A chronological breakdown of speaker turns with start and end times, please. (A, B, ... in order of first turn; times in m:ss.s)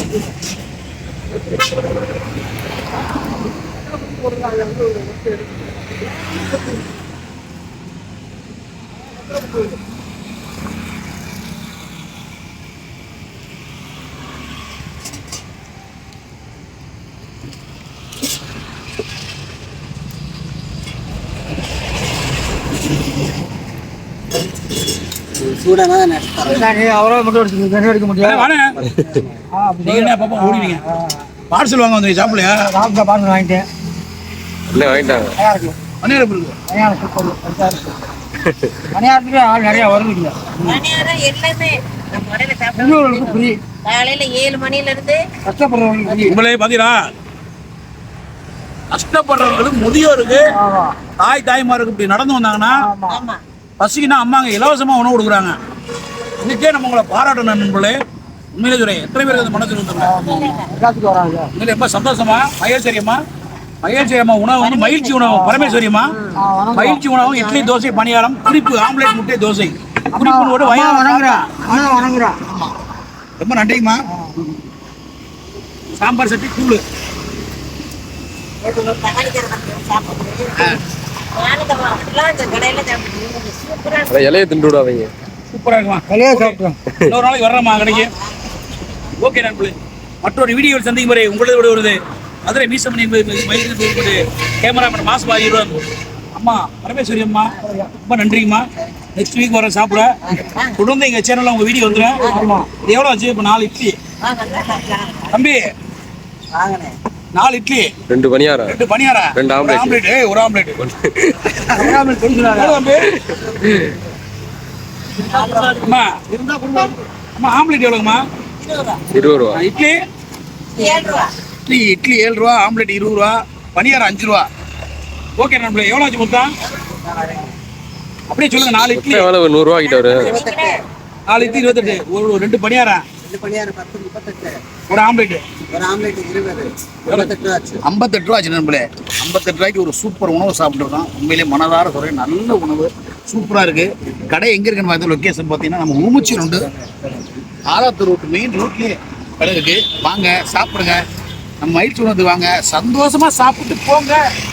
0:25.4-0:26.7 A
0:26.5-0:28.5 B
0:28.2-0:28.7 C
0:28.8-0:29.3 A
0:29.5-0:31.1 B
0:29.8-0:30.8 C
0:31.5-0:32.7 C
0:32.6-0:33.7 B
0:34.7-0:35.4 D
0:34.7-0:35.0 C
0:35.3-0:35.8 B
0:36.0-0:36.6 C
0:36.7-0:37.9 B
0:38.4-0:38.7 D
0:38.9-0:40.8 B
0:39.7-0:45.2 E
0:42.8-0:43.6 B
0:45.4-0:46.4 B
0:46.3-0:47.0 C
0:48.9-0:50.5 C
0:50.5-0:51.0 B
0:51.2-0:52.8 C
0:52.7-0:53.2 B
0:53.1-0:53.4 E
0:53.8-0:55.6 C
0:56.4-0:58.0 C
0:58.5-1:00.2 C
1:00.0-1:01.5 B
1:00.0-1:00.7 E
1:01.5-1:03.2 C
1:03.8-1:06.2 C
1:04.6-1:05.1 E
1:05.2-1:05.8 B
1:06.3-1:07.0 B
1:06.7-1:12.7 C
1:07.2-1:07.7 E
1:10.1-1:12.4 B
1:13.4-1:14.0 C
1:16.0-1:16.8 C
1:18.6-1:20.7 E
1:21.3-1:24.2 E
1:24.1-1:25.1 D
1:25.5-1:28.1 C
1:26.1-1:26.8 B
1:27.8-1:28.2 E
1:29.2-1:35.8 C
1:36.3-1:40.2 C
1:40.4-1:40.8 E
1:40.8-1:42.3 C
1:42.2-1:42.5 E
1:42.2-1:42.7 B
1:42.8-1:44.0 C
1:44.2-1:45.3 E
1:45.3-1:45.7 C
1:46.5-1:46.9 A
1:47.3-1:47.9 C
1:48.1-1:48.8 D
1:48.6-1:50.9 C
1:49.4-1:50.0 D
1:51.0-1:51.5 D
1:51.7-1:52.8 B
1:52.5-1:53.2 C
1:53.3-1:53.9 D
1:55.6-1:56.2 C
1:56.3-1:56.9 B
1:57.4-1:58.2 C
1:58.6-1:59.0 E
1:59.1-1:59.6 D
1:59.5-2:00.0 C
2:00.8-2:01.3 E
2:01.6-2:04.5 C
2:05.4-2:06.5 C
2:06.9-2:07.5 A
2:08.3-2:09.3 C
2:08.9-2:10.3 D
2:09.8-2:10.8 E
2:10.2-2:10.8 A
2:11.3-2:13.0 C
2:11.4-2:12.0 A
2:13.2-2:14.6 A
2:14.9-2:15.4 C
2:15.7-2:17.8 A
2:17.8-2:26.7 C
2:27.7-2:31.0 C
2:31.6-2:34.2 C